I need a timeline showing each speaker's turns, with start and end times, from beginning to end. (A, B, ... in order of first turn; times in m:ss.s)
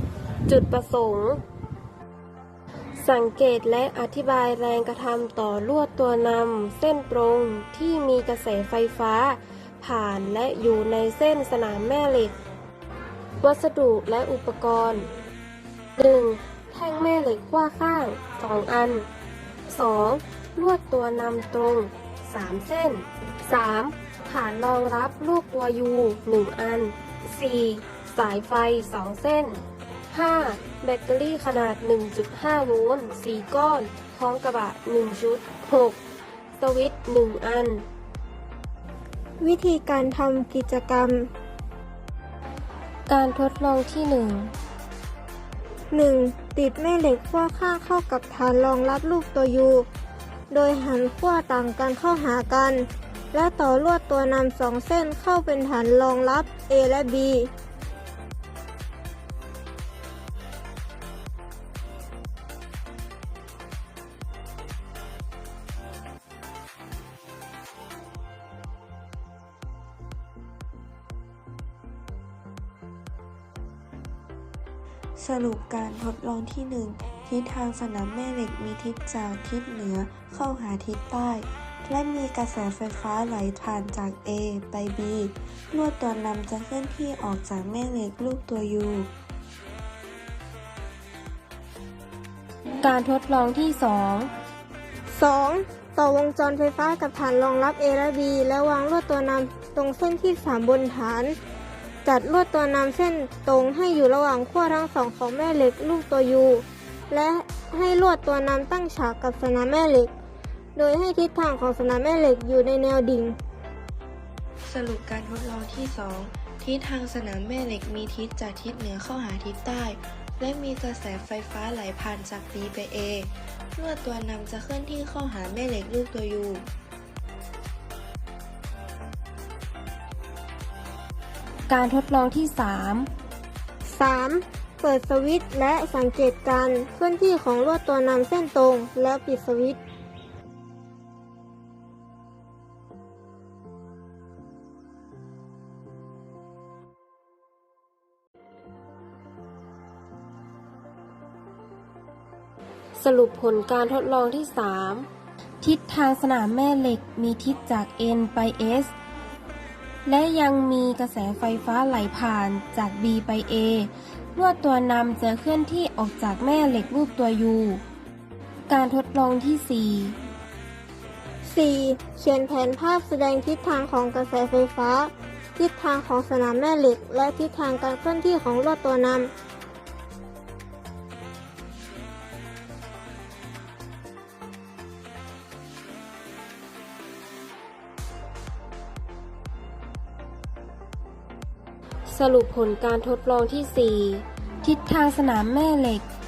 0:00.5-0:01.4 A
0:03.0-0:12.4 A
0:13.4-0:15.1 A
0:16.0-0:19.1 A
0:19.7-0:36.0 A
0:36.6-0:37.9 A
0:39.4-0:41.3 B
0:43.1-0:44.5 A
0:45.9-0:49.9 B
0:50.5-0:57.5 B
1:15.2-1:29.1 C
1:32.8-1:34.3 A
1:35.1-1:41.4 B
1:42.0-1:50.1 B
1:50.8-1:53.4 B
1:54.7-2:06.7 C
2:11.7-2:13.1 A
2:13.9-2:19.8 B
2:33.0-2:35.1 A
2:35.6-2:38.9 A
2:40.1-2:47.8 A
2:48.7-2:50.2 A
2:51.4-2:59.3 B
3:12.1-3:16.0 A